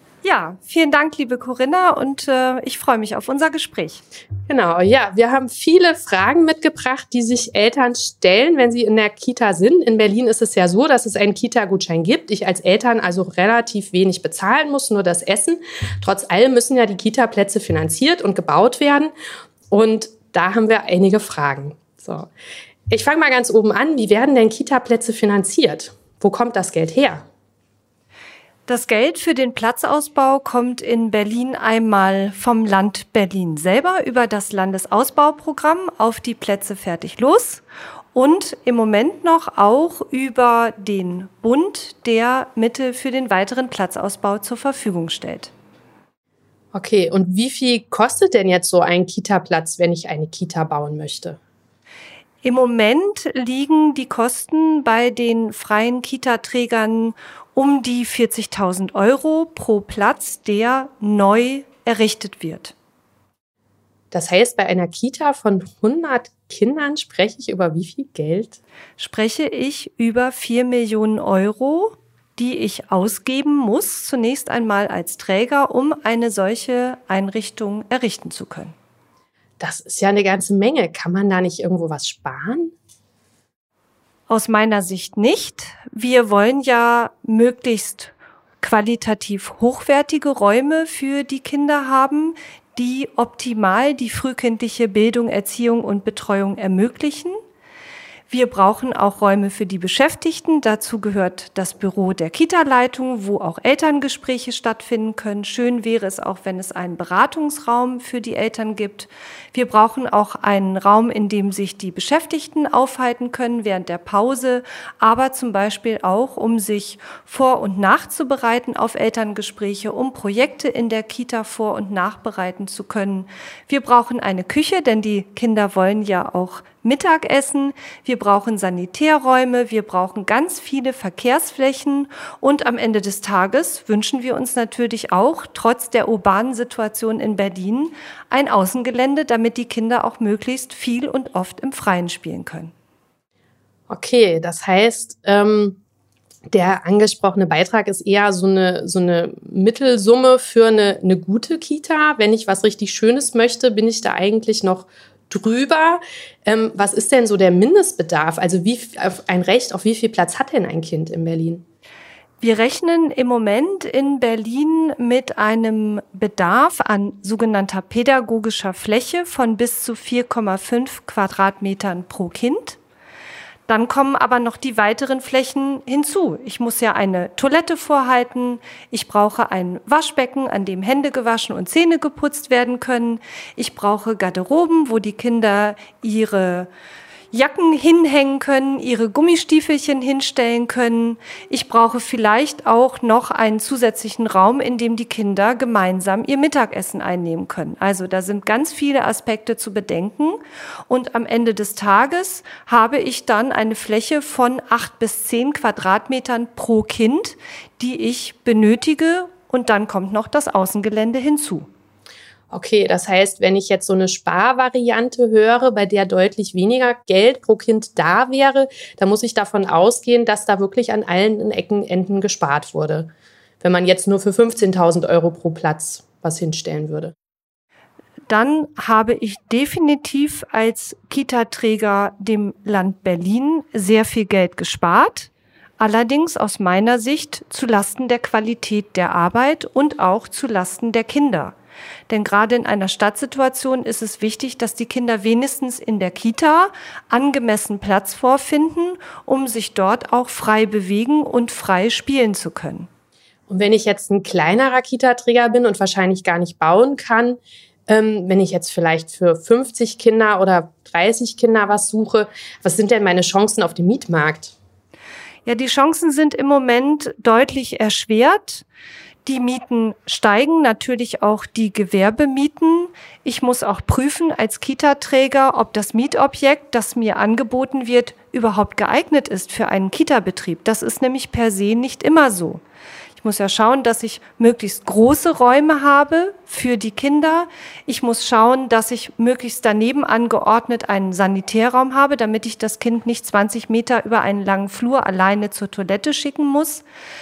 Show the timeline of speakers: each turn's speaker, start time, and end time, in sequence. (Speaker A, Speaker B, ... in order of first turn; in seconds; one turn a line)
Speaker A: 0.2-4.0
Speaker B: 4.5-19.1
Speaker B: 19.7-22.3
Speaker B: 22.9-27.2
Speaker A: 28.7-37.6
Speaker A: 38.1-45.5
Speaker B: 46.7-51.4
Speaker A: 52.4-62.7
Speaker B: 64.1-68.6
Speaker A: 69.0-78.8
Speaker B: 79.6-82.7
Speaker A: 84.3-97.4
Speaker A: 98.3-142.7
Speaker B: 143.9-145.8
Speaker B: 146.5-161.7
Speaker A: 162.4-172.8
Speaker A: 173.7-186.7
Speaker A: 187.3-211.7
Speaker B: 212.5-223.1
Speaker B: 223.6-227.2
Speaker A: 228.3-241.5
Speaker A: 242.1-252.9
Speaker B: 253.5-264.6
Speaker A: 265.4-268.6
Speaker A: 269.2-282.6
Speaker A: 283.2-296.8